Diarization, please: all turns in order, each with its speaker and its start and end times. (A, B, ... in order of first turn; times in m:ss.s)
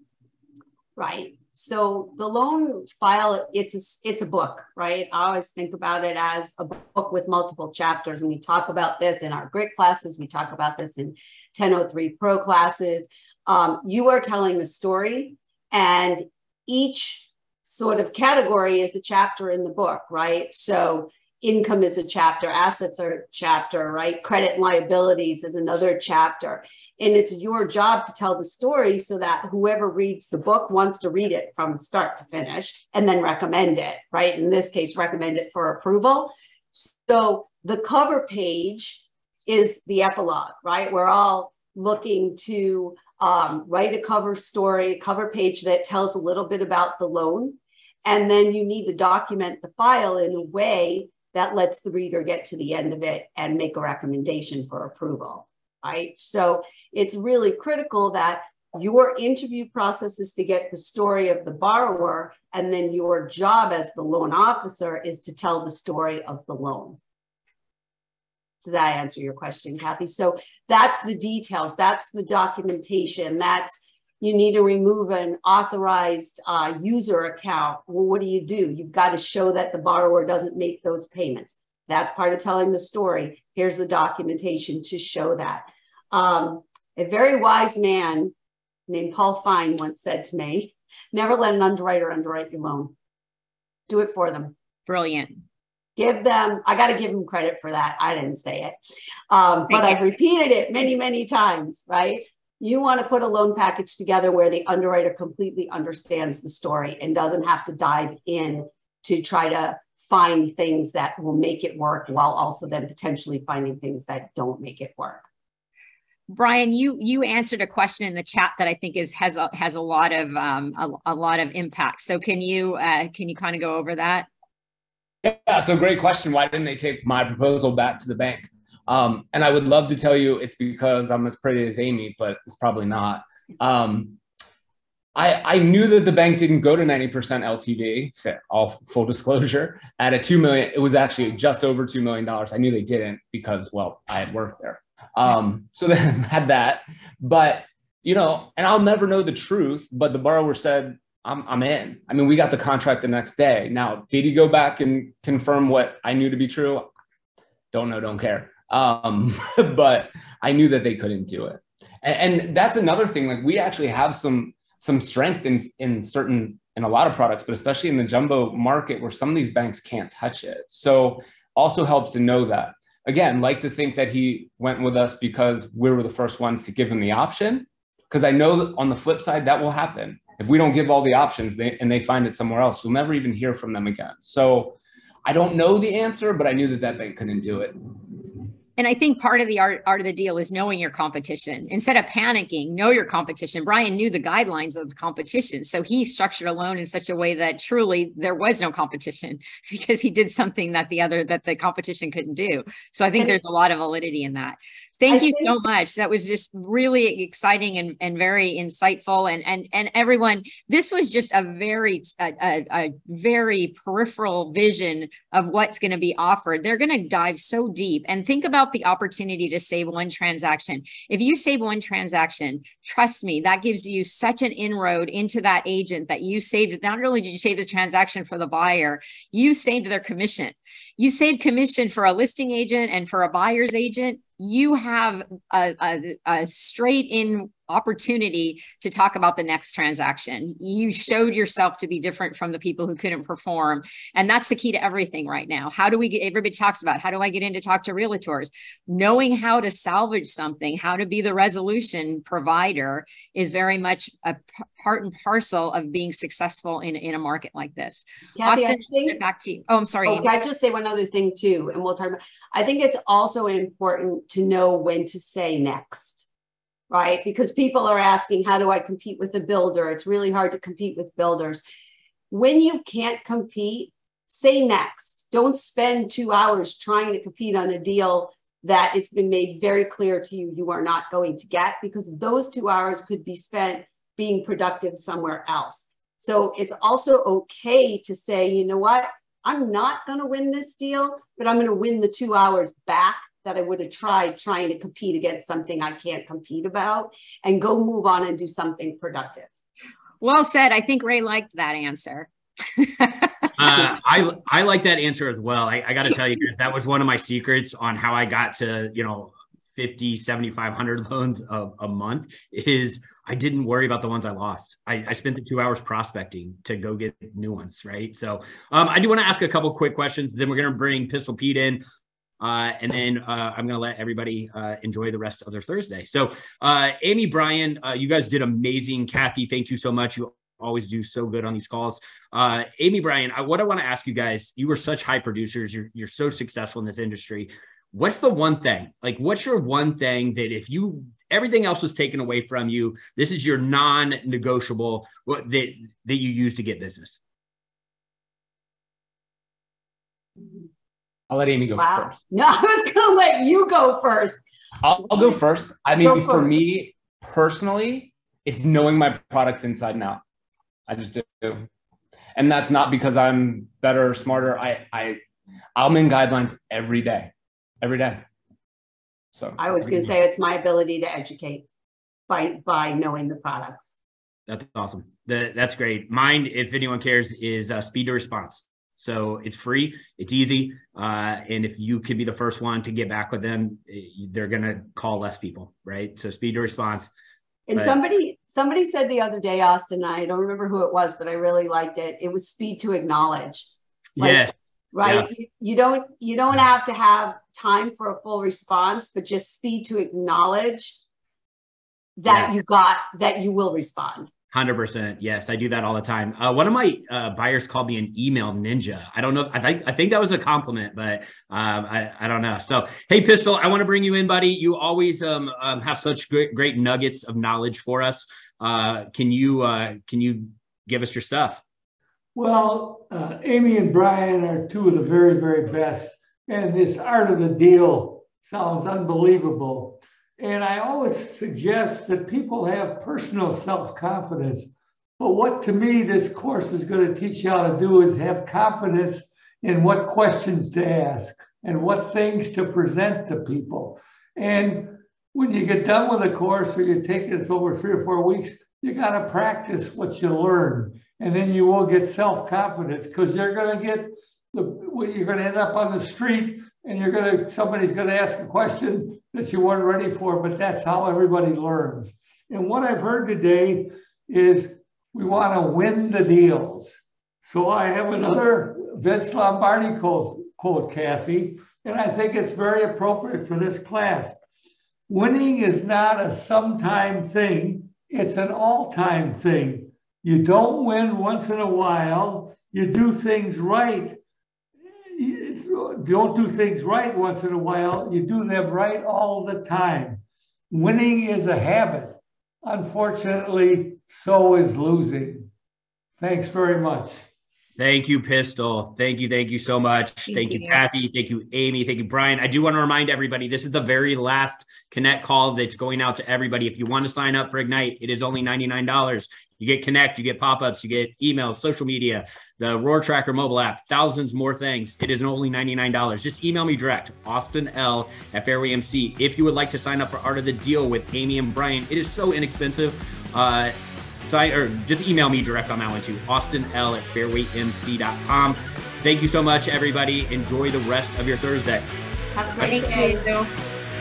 0:01.0-1:07.0 A
1:08.6-1:28.3 A
1:28.9-1:32.9 A
1:33.9-1:34.5 A
1:34.9-1:35.4 B
1:36.0-1:38.8 A
1:39.3-1:55.3 A
1:39.7-1:40.0 B
1:56.3-2:04.3 B
2:05.2-2:14.2 C
2:15.2-2:36.9 C
2:37.7-3:07.8 C
3:08.8-4:20.3 B
3:25.1-3:25.5 A
4:18.4-4:19.2 A
4:20.1-4:26.3 A
4:26.9-4:31.6 A
4:32.3-4:59.5 A
5:00.2-5:03.9 B
5:03.6-5:21.8 D
5:22.4-5:47.2 D
5:51.3-5:52.2 C
5:51.8-5:54.4 A
5:54.8-6:00.2 C
5:56.0-5:56.6 A
6:00.9-6:01.7 C
6:02.4-6:05.2 C
6:05.8-6:08.2 C
6:09.3-6:10.0 C
6:09.6-6:11.7 A
6:12.3-6:13.9 A
6:14.5-6:27.1 D
6:27.7-6:41.0 A
6:34.2-6:35.3 D
6:42.2-6:44.3 A
6:44.5-7:01.6 D
7:02.4-7:54.4 E
7:55.1-8:04.2 E
8:05.1-8:15.5 E
8:16.2-8:17.2 E
8:17.8-8:51.9 D
8:20.3-8:20.8 B
8:52.4-8:53.2 A
8:52.6-8:53.5 B